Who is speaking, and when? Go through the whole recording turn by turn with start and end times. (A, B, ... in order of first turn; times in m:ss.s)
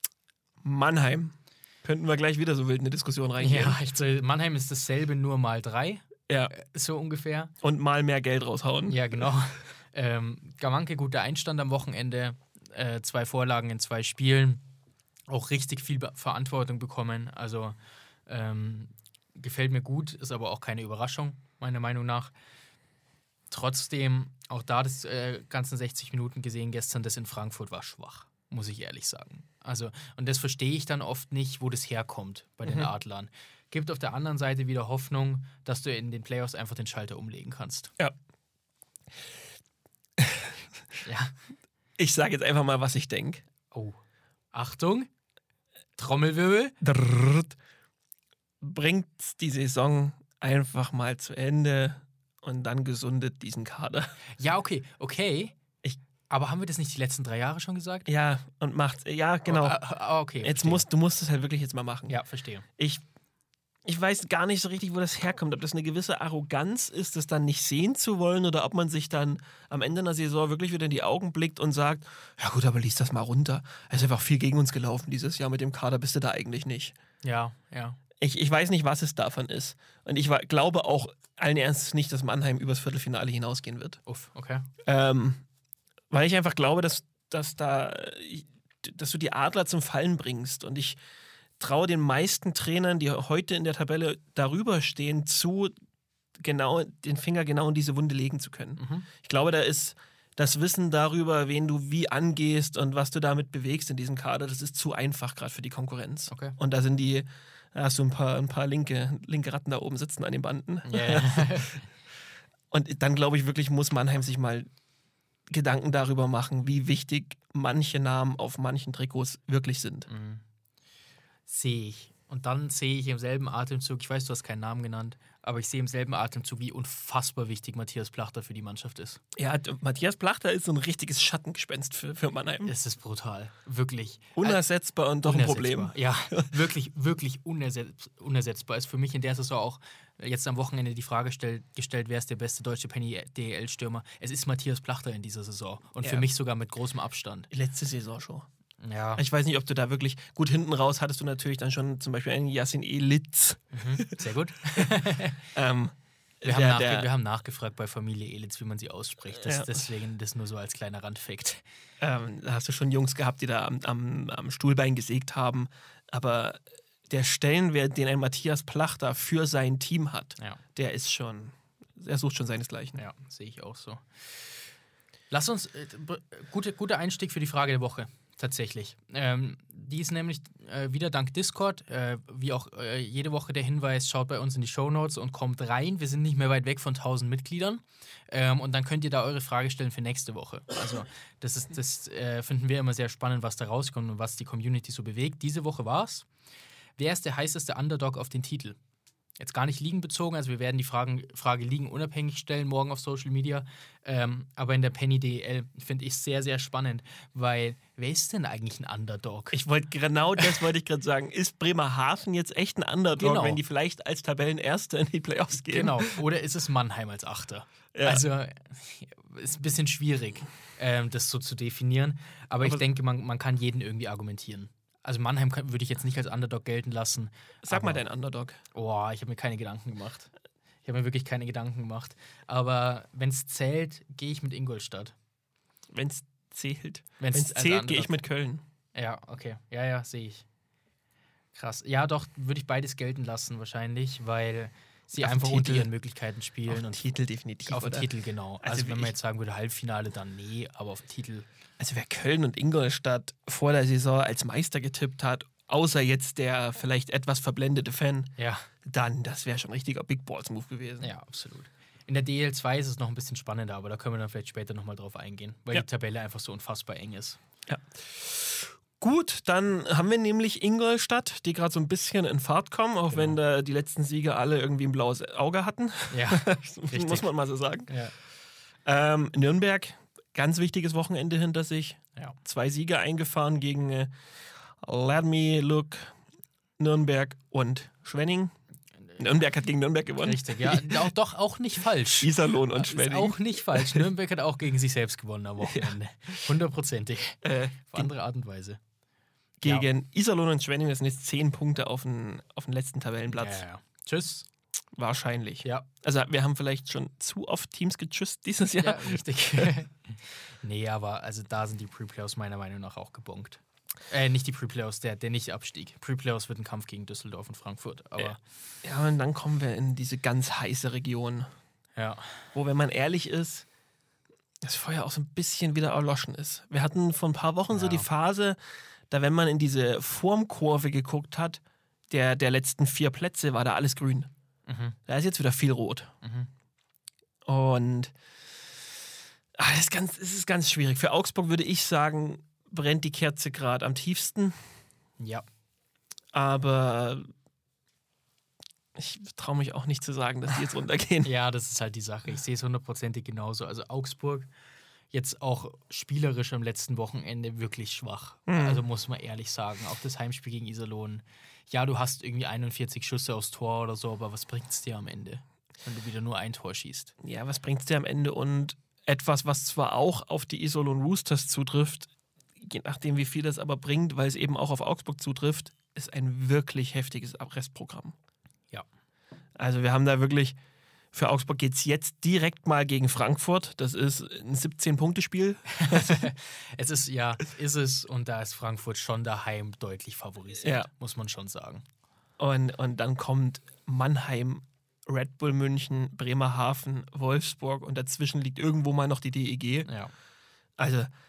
0:00.6-0:03.8 A
0:03.4-0:07.5 B
0:07.6-0:09.0 A
0:08.9-0:14.6 B
0:15.3-0:22.3 B
0:23.5-0:37.9 B
0:32.6-0:32.9 A
0:40.2-0:40.6 A
0:41.0-0:41.4 B
0:42.0-0:43.4 A
0:43.7-0:44.0 B
0:44.5-0:45.1 B
0:46.0-0:46.8 B
0:46.8-0:47.6 A
0:48.6-0:54.1 A
0:54.4-0:55.6 B
0:56.3-0:58.1 B
0:58.1-0:59.8 A
0:59.5-1:00.8 B
1:00.4-1:02.2 A
1:02.1-1:02.6 B
1:02.8-1:03.0 A
1:03.8-1:17.0 A
1:17.2-1:18.0 B
1:18.2-1:24.0 A
1:24.1-1:24.7 B
1:24.8-1:25.4 A
1:26.1-1:31.0 A
1:31.6-1:35.7 A
1:36.4-1:51.8 A
1:38.8-1:39.0 B
1:46.3-1:46.6 B
1:50.8-1:51.8 B
1:52.7-1:54.7 A
1:55.5-2:00.1 A
2:00.1-2:00.4 B
2:01.5-2:09.2 B
2:09.4-2:12.7 A
2:12.6-2:14.6 B
2:14.4-2:16.5 A
2:15.2-2:27.5 B
2:26.0-2:26.3 A
2:27.5-2:28.5 A
2:28.8-2:29.2 B
2:29.2-2:34.2 A
2:33.7-2:35.4 B
2:35.5-2:37.1 A
2:36.4-2:41.6 B
2:39.4-2:39.8 A
2:42.0-2:53.0 A
2:52.9-2:54.0 B
2:55.3-3:16.3 B
3:17.0-3:18.8 B
3:19.4-3:29.6 B
3:29.5-3:36.2 A
3:33.2-3:33.6 B
3:35.7-3:48.0 B
3:37.9-3:38.2 A
3:47.6-3:48.6 A
3:48.7-3:50.3 B
3:50.8-3:55.1 B
3:55.9-3:58.6 A
3:57.2-3:58.1 B
3:58.9-4:00.4 B
4:01.5-4:07.0 B
4:05.2-4:05.9 A
4:06.7-4:08.1 A
4:07.6-4:11.5 B
4:08.6-4:09.1 A
4:11.8-4:18.3 A
4:18.4-4:18.7 B
4:18.8-4:21.1 A
4:21.0-4:27.4 B
4:27.7-4:37.9 A
4:33.1-4:33.4 B
4:36.1-4:37.3 B
4:37.9-4:38.1 B
4:38.8-4:44.1 A
4:44.8-4:46.2 A
4:46.8-4:48.5 A
4:49.2-4:51.1 A
4:50.2-4:58.8 B
4:52.2-4:54.0 A
4:55.6-4:55.9 A
4:57.4-4:58.1 A
4:59.6-5:03.6 A
5:03.3-5:04.4 B
5:04.9-5:09.7 A
5:08.8-5:18.4 B
5:18.2-5:21.5 A
5:22.0-5:22.4 B
5:22.5-5:23.7 A
5:24.6-5:34.3 A
5:27.7-5:28.0 B
5:34.7-5:35.0 B
5:35.0-5:36.1 A
5:36.2-5:36.5 B
5:37.4-5:38.1 A
5:39.6-5:44.7 A
5:45.2-5:45.4 B
5:46.3-5:47.3 A
5:48.9-5:51.3 A
5:51.2-5:54.5 B
5:55.1-6:07.1 B
5:58.5-5:58.8 A
6:07.2-6:18.1 A
6:19.6-6:20.6 A
6:21.1-6:26.3 A
6:25.8-6:31.8 B
6:30.6-6:30.9 A
6:32.4-6:39.9 A
6:39.8-6:40.1 B
6:40.8-6:41.1 A